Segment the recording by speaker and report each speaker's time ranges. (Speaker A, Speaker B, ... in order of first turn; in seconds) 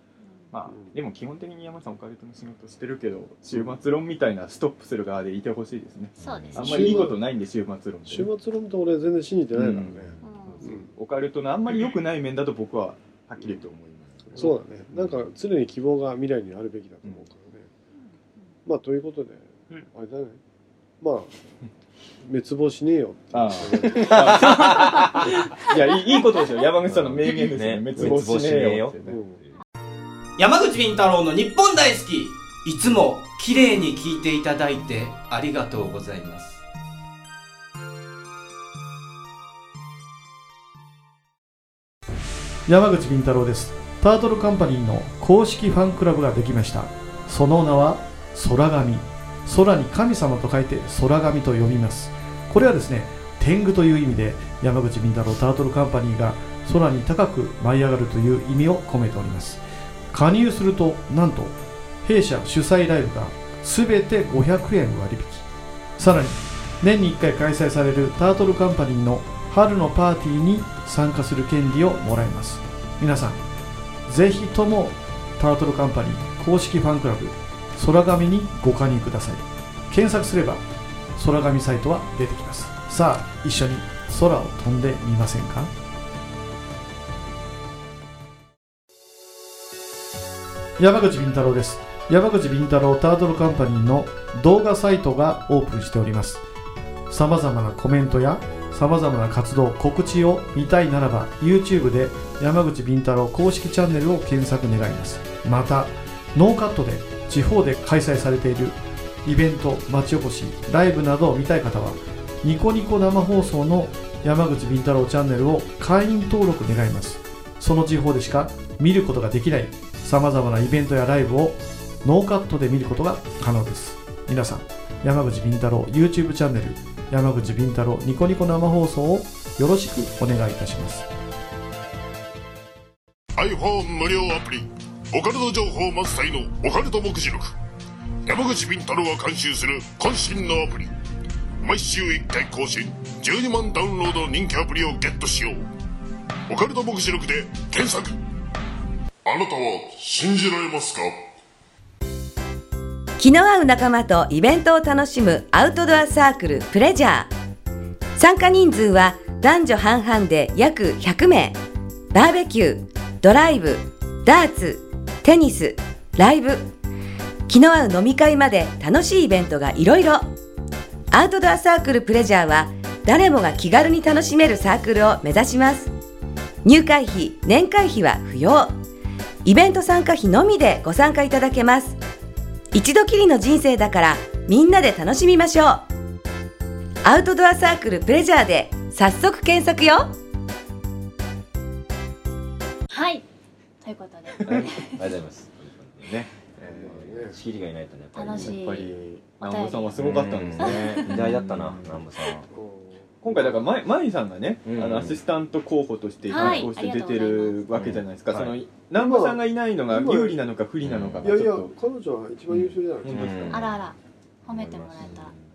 Speaker A: 0.5-8.3, 9.5-15.1, 23.3-29.2, 194.4-194.7, 196.0-197.0, 198.3-202.0, 203.2-211.7, 213.0-213.7, 215.0-215.3
Speaker B: 6.2-6.9, 24.1-25.2, 27.2-29.5, 194.4-196.2, 196.7-198.6, 199.9-202.5, 204.7-205.2, 206.3-206.7, 207.7-208.6, 210.8-211.4, 212.6-213.8, 214.5-215.3
Speaker C: 6.2-7.0, 10.2-10.7, 192.9-193.2, 193.8-195.0, 198.1-201.2, 206.3-207.7, 213.5-215.3
Speaker D: 6.6-7.2, 8.1-10.9, 14.4-17.7, 18.7-20.4, 21.0-21.3, 22.2-24.4, 29.1-29.4, 196.7-197.4, 202.5-203.6, 208.9-210.5, 211.2-213.6
Speaker E: 30.4-36.6
Speaker F: 42.7-59.6, 60.1-65.4, 66.0-73.4, 74.1-80.6, 81.2-85.7, 90.8-96.4, 97.1-131.1
Speaker G: 133.4-137.5, 138.3-140.9, 141.6-145.6, 146.5-148.2, 149.2-151.2
Speaker H: 153.2-157.3, 158.2-161.6, 162.1-166.7, 167.5-170.3, 171.1-175.9, 176.6-178.7, 179.4-182.0, 182.7-185.8, 187.1-190.1